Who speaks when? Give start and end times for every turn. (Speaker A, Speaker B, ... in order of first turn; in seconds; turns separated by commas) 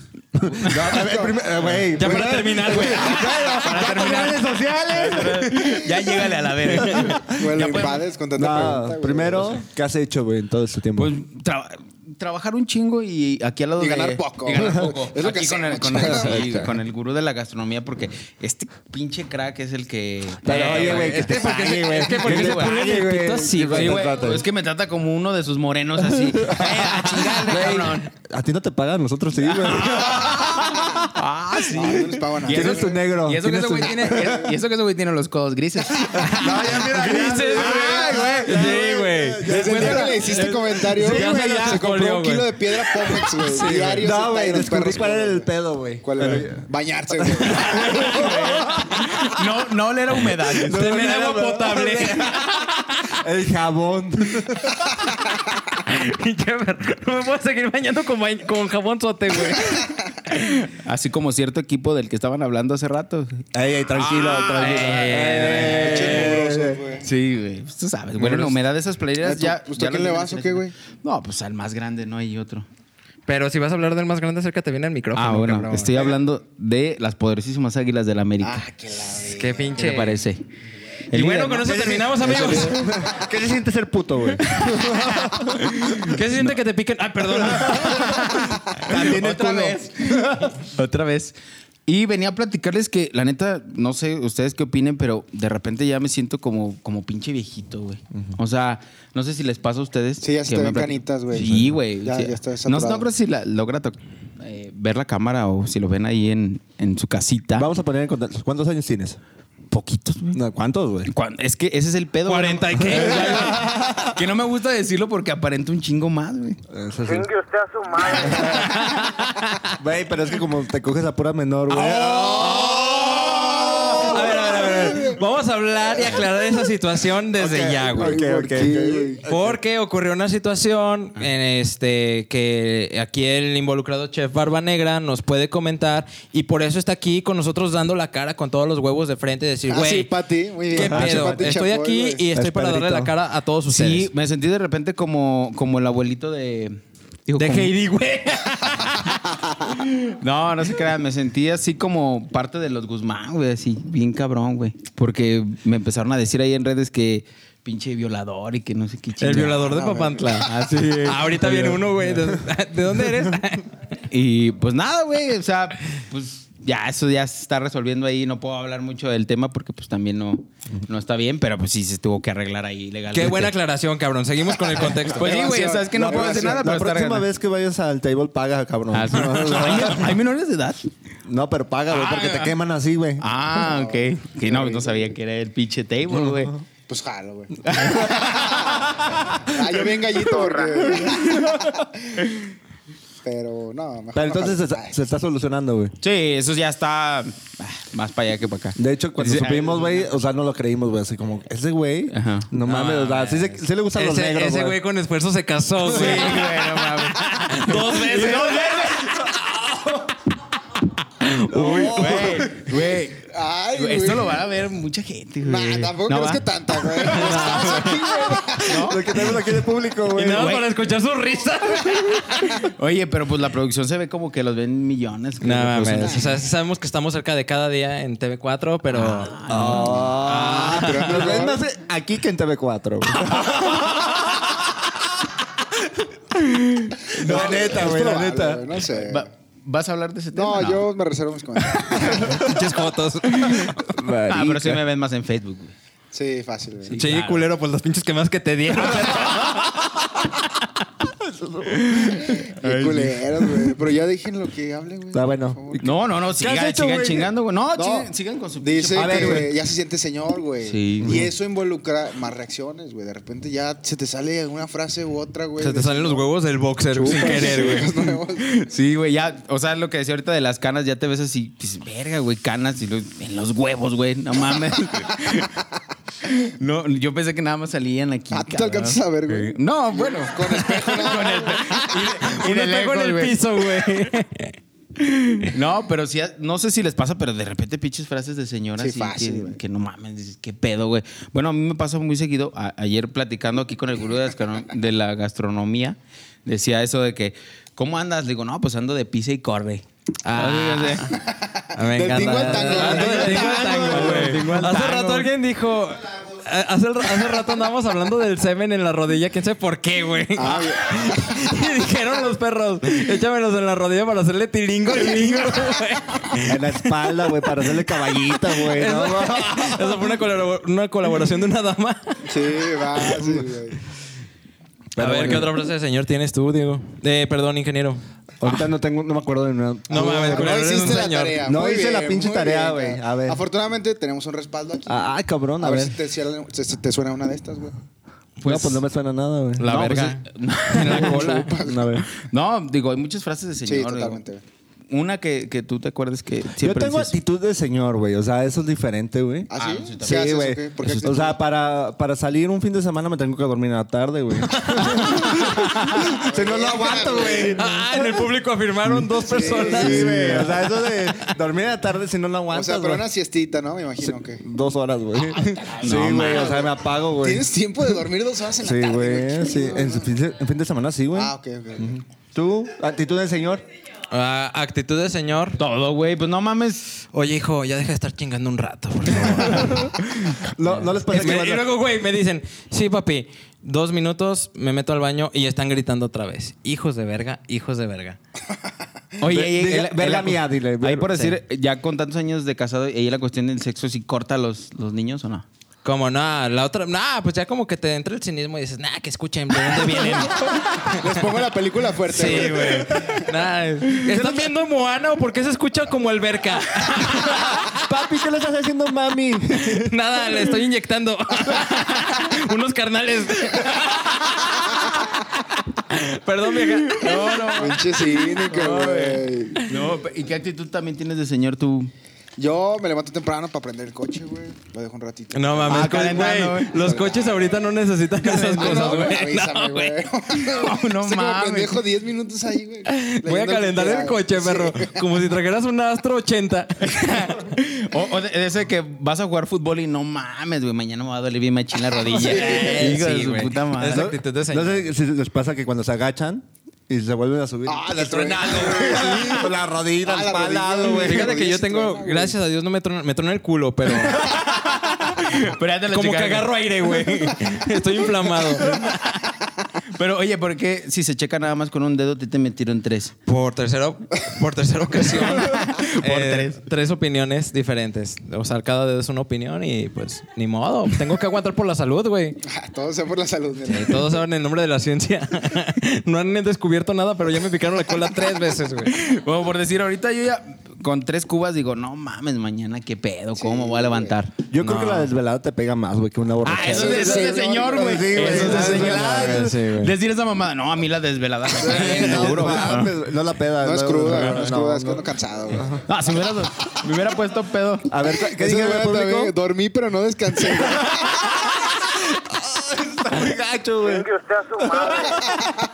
Speaker A: 0.3-7.3, Speaker B: 0.6-1.0, Speaker C: 0.9-3.3, Speaker B: 1.6-1.9, Speaker D: 1.9-3.4, Speaker B: 2.8-8.0, Speaker D: 6.7-7.1, Speaker C: 7.2-9.6, Speaker A: 8.3-11.1, Speaker B: 10.9-22.8, Speaker C: 13.8-16.5, Speaker A: 15.9-16.7, Speaker A: 20.4-24.4, Speaker D: 20.4-24.1, Speaker B: 23.7-28.1, Speaker A: 26.1-26.8, Speaker D: 26.6-28.0, Speaker A: 27.4-30.7, Speaker B: 29.6-36.6, Speaker D: 29.8-30.9, Speaker C: 31.7-33.1, Speaker A: 32.5-34.4, Speaker C: 33.8-34.4, Speaker A: 36.1-42.0, Speaker D: 36.1-43.2, Speaker C: 36.4-45.5, Speaker B: 37.8-38.1, Speaker B: 39.6-40.1, Speaker A: 43.4-46.6, Speaker C: 46.0-47.8, Speaker A: 47.4-49.0, Speaker D: 47.4-48.6, Speaker B: 48.0-50.9, Speaker D: 50.3-53.1, Speaker A: 50.6-52.5, Speaker A: 53.1-54.7, Speaker D: 55.7-59.9, Speaker B: 60.3-65.5, Speaker A: 63.5-66.8, Speaker D: 64.1-66.3, Speaker C: 65.5-67.1, Speaker B: 67.0-72.7, Speaker C: 69.2-70.7, Speaker D: 73.3-76.1, Speaker B: 75.1-78.6, Speaker C: 78.4-79.8, Speaker D: 79.3-80.2, Speaker B: 79.8-80.4, Speaker B: 81.1-81.8, Speaker D: 81.1-83.0, Speaker A: 81.6-85.6, Speaker B: 82.3-82.7, Speaker B: 85.5-86.6, Speaker D: 86.0-89.0, Speaker A: 87.3-90.5, Speaker B: 87.7-107.7, Speaker C: 100.2-103.1, Speaker A: 107.6-109.2, Speaker B: 109.7-110.4, Speaker A: 110.3-111.1, Speaker B: 111.0-116.6, Speaker D: 112.2-113.7, Speaker A: 112.9-114.1, Speaker A: 116.7-117.3, Speaker E: 117.0-118.8, Speaker A: 118.2-118.7, Speaker D: 118.7-119.5, Speaker A: 119.8-124.7, Speaker B: 121.7-123.1, Speaker D: 122.0-128.2, Speaker C: 124.0-125.2, Speaker A: 127.4-129.6, Speaker C: 127.8-129.2, Speaker D: 129.3-140.1, Speaker C: 139.7-142.3, Speaker D: 140.7-144.1, Speaker A: 140.8-141.5, Speaker A: 142.3-143.1, Speaker B: 143.7-147.7, Speaker D: 147.4-149.4, Speaker B: 149.9-159.7, Speaker D: 159.2-163.7, Speaker C: 159.6-160.7, Speaker A: 161.4-162.3, Speaker B: 164.1-173.5, Speaker D: 173.1-175.6, Speaker C: 175.1-176.7, Speaker B: 175.1-177.3, Speaker A: 175.9-180.2, Speaker B: 178.9-180.9, Speaker A: 181.3-183.2, Speaker B: 181.9-182.6, Speaker B: 183.2-186.5, Speaker C: 183.6-185.1, Speaker A: 186.2-186.6, Speaker C: 186.9-192.2, Speaker B: 187.6-189.1, Speaker B: 190.9-191.6, Speaker C: 193.2-194.9, Speaker A: 194.1-195.9, Speaker B: 196.0-200.1, Speaker A: 198.8-204.8, Speaker B: 202.1-203.6, Speaker D: 202.7-203.2, Speaker D: 203.9-209.7, Speaker B: 205.8-209.3, Speaker A: 205.9-206.2, Speaker D: 211.2-212.5, Speaker A: 211.5-212.7, Speaker B: 211.9-216.5, Speaker C: 213.3-214.4, Speaker C: 215.4-218.9, Speaker D: 217.0-219.3, Speaker B: 218.6-219.2, Speaker A: 218.8-220.6, Speaker D: 220.1-222.6, Speaker B: 220.2-220.7, Speaker B: 222.6-226.4, Speaker D: 225.4-231.4, Speaker C: 226.0-226.3, Speaker B: 228.9-230.2, Speaker A: 229.5-233.8, Speaker C: 230.5-231.6, Speaker D: 233.2-234.0, Speaker B: 236.3-237.9, Speaker C: 237.1-239.3, Speaker A: 237.2-238.6, Speaker B: 238.9-240.9, Speaker C: 240.3-242.4, Speaker A: 242.1-242.5, Speaker D: 242.3-244.8, Speaker B: 243.3-243.7, Speaker A: 244.0-244.4, Speaker B: 244.3-245.7, Speaker C: 246.1-247.0, Speaker B: 246.8-247.5, Speaker D: 247.0-250.2, Speaker A: 251.2-251.8, Speaker B: 251.9-253.2, Speaker C: 252.2-255.9, Speaker A: 255.1-257.3, Speaker B: 255.8-259.5, Speaker C: 257.7-266.2, Speaker A: 258.9-259.5, Speaker B: 260.6-261.2, Speaker A: 261.0-261.3, Speaker D: 265.6-267.9, Speaker C: 266.9-268.6, Speaker B: 268.4-275.6, Speaker B: 276.2-283.4, Speaker C: 278.3-282.1, Speaker D: 282.2-284.6, Speaker D: 285.1-285.5, Speaker B: 285.4-301.2, Speaker C: 288.8-289.6, Speaker D: 300.2-301.2, Speaker C: 301.3-304.0, Speaker D: 301.7-322.2, Speaker B: 302.1-305.3, Speaker A: 302.6-304.6, Speaker C: 310.4-311.4, Speaker A: 316.4-319.8, Speaker C: 322.2-323.8, Speaker A: 324.9-325.5, Speaker D: 325.0-328.6, Speaker A: 328.4-330.6, Speaker D: 329.9-331.4, Speaker C: 330.0-335.0, Speaker A: 331.4-333.4, Speaker A: 334.9-336.0, Speaker C: 335.6-337.7, Speaker D: 338.4-338.8, Speaker B: 338.4-338.8, Speaker A: 338.4-339.6, Speaker D: 339.6-340.2, Speaker B: 339.6-341.5, Speaker D: 340.7-341.5, Speaker C: 340.8-342.1, Speaker A: 341.6-342.1, Speaker B: 342.1-344.2, Speaker C: 343.6-344.4, Speaker B: 344.9-347.1, Speaker A: 346.6-349.5, Speaker C: 349.5-351.4, Speaker B: 349.6-351.2, Speaker A: 350.0-357.8, Speaker D: 354.4-355.9, Speaker C: 356.2-357.7, Speaker D: 357.6-361.3, Speaker A: 358.8-363.0, Speaker C: 359.2-360.5, Speaker C: 362.5-364.4, Speaker A: 364.0-367.4, Speaker C: 365.4-370.1, Speaker B: 365.8-366.6, Speaker A: 368.6-373.6, Speaker C: 371.1-371.9, Speaker D: 374.1-375.6, Speaker B: 375.6-376.9, Speaker D: 377.1-388.2, Speaker B: 379.3-379.7, Speaker A: 379.4-379.7, Speaker A: 380.5-381.6, Speaker B: 381.1-381.5, Speaker B: 389.2-395.4, Speaker A: 389.2-391.3, Speaker D: 395.8-401.1, Speaker C: 400.9-403.1, Speaker D: 402.1-407.9, Speaker A: 404.1-404.5, Speaker A: 407.5-409.9, Speaker D: 409.7-417.8, Speaker B: 416.8-421.9, Speaker C: 417.5-419.6, Speaker C: 422.4-427.4, Speaker D: 425.3-430.0, Speaker B: 425.6-426.9, Speaker C: 428.2-435.0, Speaker B: 430.3-431.8, Speaker D: 432.9-437.4, Speaker B: 436.8-444.1, Speaker C: 442.1-443.0, Speaker D: 442.2-444.9, Speaker A: 443.9-451.3, Speaker C: 447.7-449.5, Speaker C: 450.0-452.4, Speaker D: 451.0-459.3, Speaker B: 455.2-456.5, Speaker B: 458.3-458.9, Speaker B: 459.9-463.1, Speaker D: 463.2-472.4, Speaker B: 465.1-466.6, Speaker C: 472.4-474.2, Speaker D: 473.7-478.9, Speaker B: 478.9-484.5, Speaker C: 483.4-484.1, Speaker A: 484.5-489.6, Speaker D: 484.6-485.1, Speaker B: 486.4-492.9, Speaker C: 486.6-488.8, Speaker D: 488.4-489.9, Speaker A: 491.6-495.9, Speaker C: 493.6-495.6, Speaker B: 495.8-497.9, Speaker A: 497.9-499.3, Speaker C: 498.3-501.0, Speaker A: 501.9-505.4, Speaker E: 503.8-505.3